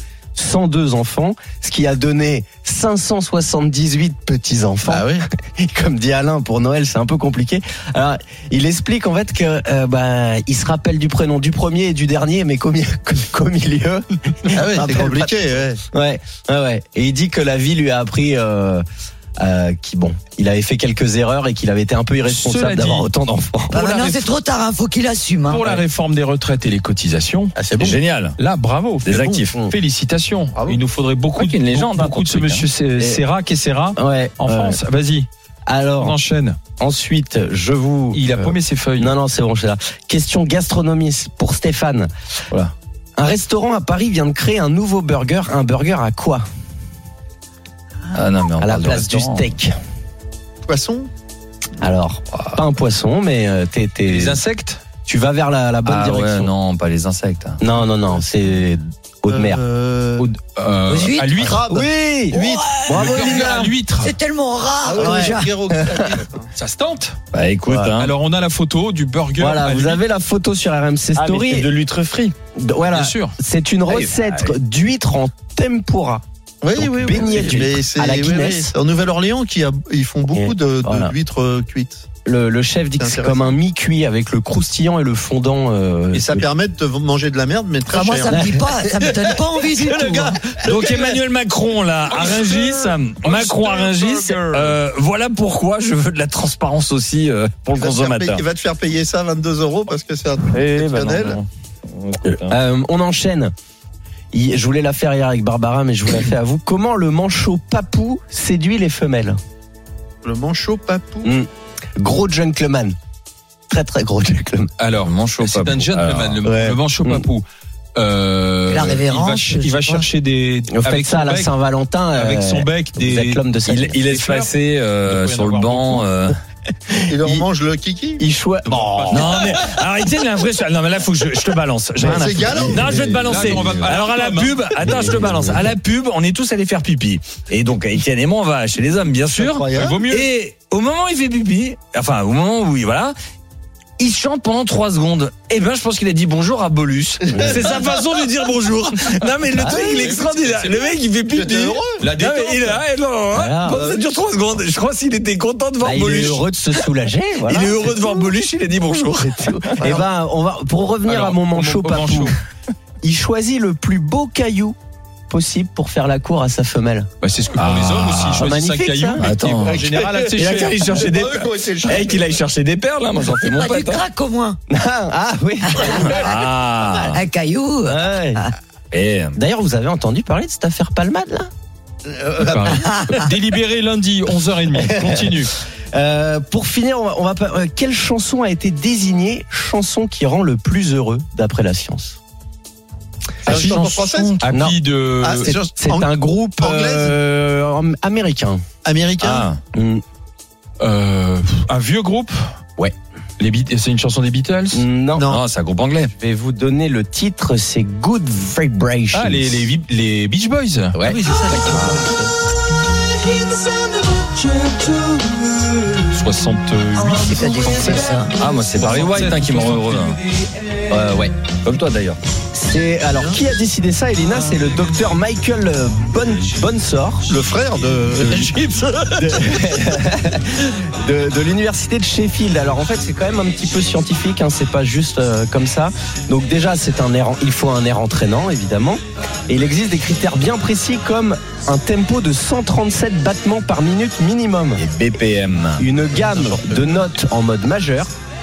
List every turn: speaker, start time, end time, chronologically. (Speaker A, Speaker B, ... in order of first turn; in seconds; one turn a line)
Speaker A: 0.3-15.3
Speaker B: 4.8-5.2
Speaker B: 14.5-15.8
Speaker A: 15.9-18.8
Speaker A: 19.4-23.8
Speaker C: 22.3-23.1
Speaker D: 23.7-25.7
Speaker C: 23.7-24.3
Speaker C: 25.5-27.5
Speaker B: 27.6-28.0
Speaker E: 27.8-28.4
Speaker C: 28.4-35.3
Speaker E: 29.1-29.5
Speaker B: 30.6-30.8
Speaker E: 31.4-32.7
Speaker A: 33.0-33.2
Speaker A: 34.0-34.8
Speaker A: 35.7-36.2
Speaker C: 36.0-36.6
Speaker A: 36.8-42.1
Speaker C: 38.1-39.1
Speaker A: 43.2-46.4
Speaker E: 48.1-49.5
Speaker A: 48.6-49.7
Speaker B: 50.7-51.1
Speaker A: 51.8-54.4
Speaker C: 54.1-54.8
Speaker A: 55.1-56.5
Speaker E: 55.9-57.6
Speaker A: 57.6-59.6
Speaker B: 59.3-60.3
Speaker C: 60.5-61.6
Speaker D: 60.9-61.4
Speaker B: 61.3-63.5
Speaker A: 61.7-63.7
Speaker D: 62.4-63.0
Speaker C: 62.9-64.1
Speaker D: 64.0-65.5
Speaker B: 64.8-66.5
Speaker A: 65.0-66.2
Speaker C: 66.5-67.2
Speaker E: 67.3-68.1
Speaker A: 67.7-67.9
Speaker C: 68.0-70.0
Speaker A: 69.4-71.7
Speaker E: 71.2-72.3
Speaker A: 72.6-78.7
Speaker C: 72.9-73.4
Speaker E: 73.9-74.6
Speaker B: 76.6-82.0
Speaker A: 80.3-81.1
Speaker A: 82.2-86.5
Speaker B: 83.0-83.5
Speaker B: 86.1-88.5
Speaker D: 87.9-90.6
Speaker A: 88.3-88.7
Speaker A: 89.8-91.1
Speaker E: 90.6-98.4
Speaker C: 92.1-94.8
Speaker B: 97.8-101.4
Speaker E: 100.5-102.6
Speaker A: 102.3-103.5
Speaker A: 104.3-109.4
Speaker B: 110.2-111.3
Speaker A: 111.2-113.0
Speaker A: 113.7-114.7
Speaker C: 114.8-117.5
Speaker E: 115.0-116.4
Speaker A: 116.4-117.2
Speaker C: 118.0-121.5
Speaker D: 118.7-120.1
Speaker A: 120.7-124.0
Speaker C: 122.2-123.4
Speaker E: 123.7-126.4
Speaker C: 124.0-126.1
Speaker A: 126.9-127.5
Speaker B: 127.1-128.2
Speaker A: 128.2-129.5
Speaker C: 128.7-129.7
Speaker E: 129.1-143.2
Speaker B: 132.0-133.2
Speaker C: 132.7-135.3
Speaker A: 132.8-133.1
Speaker A: 134.8-135.6
Speaker B: 139.3-140.0
Speaker C: 139.8-140.3
Speaker E: 144.0-156.9
Speaker A: 149.5-150.0
Speaker C: 149.6-150.9
Speaker B: 151.3-152.0
Speaker C: 152.0-152.8
Speaker A: 153.3-153.8
Speaker B: 153.7-154.0
Speaker A: 155.8-157.9
Speaker E: 157.5-159.8
Speaker A: 159.2-162.4
Speaker B: 159.8-160.1
Speaker C: 161.1-162.4
Speaker A: 163.0-164.8
Speaker A: 165.3-167.1
Speaker C: 167.2-171.0
Speaker E: 167.6-168.5
Speaker A: 168.4-169.3
Speaker E: 169.2-174.1
Speaker B: 169.6-172.4
Speaker D: 173.2-174.6
Speaker A: 174.7-177.0
Speaker D: 175.7-176.2
Speaker E: 175.9-177.2
Speaker D: 177.1-178.5
Speaker A: 177.8-178.4
Speaker E: 178.9-179.4
Speaker A: 179.3-181.5
Speaker B: 182.1-182.9
Speaker C: 182.4-185.5
Speaker D: 182.7-183.2
Speaker A: 184.7-192.2
Speaker E: 193.4-194.4
Speaker B: 193.5-194.4
Speaker C: 194.4-195.5
Speaker A: 194.5-194.8
Speaker B: 195.2-197.2
Speaker A: 195.5-198.6
Speaker B: 198.8-199.5
Speaker E: 199.2-199.6
Speaker A: 199.7-200.0
Speaker C: 200.8-202.4
Speaker C: 203.4-204.8
Speaker A: 204.7-205.3
Speaker B: 205.2-205.4
Speaker E: 205.3-206.1
Speaker A: 206.2-209.7
Speaker C: 209.1-211.2
Speaker A: 210.9-212.0
Speaker E: 211.4-211.9
Speaker D: 211.5-211.8
Speaker A: 213.5-215.9
Speaker C: 216.1-217.6
Speaker D: 217.0-218.3
Speaker A: 217.7-218.0
Speaker E: 218.3-220.2
Speaker C: 218.7-220.5
Speaker A: 220.9-221.3
Speaker E: 220.9-222.2
Speaker A: 222.5-227.3
Speaker B: 227.3-229.3
Speaker A: 228.3-228.5
Speaker A: 229.1-244.9
Speaker E: 244.8-245.9
Speaker A: 245.8-248.1
Speaker B: 246.1-246.9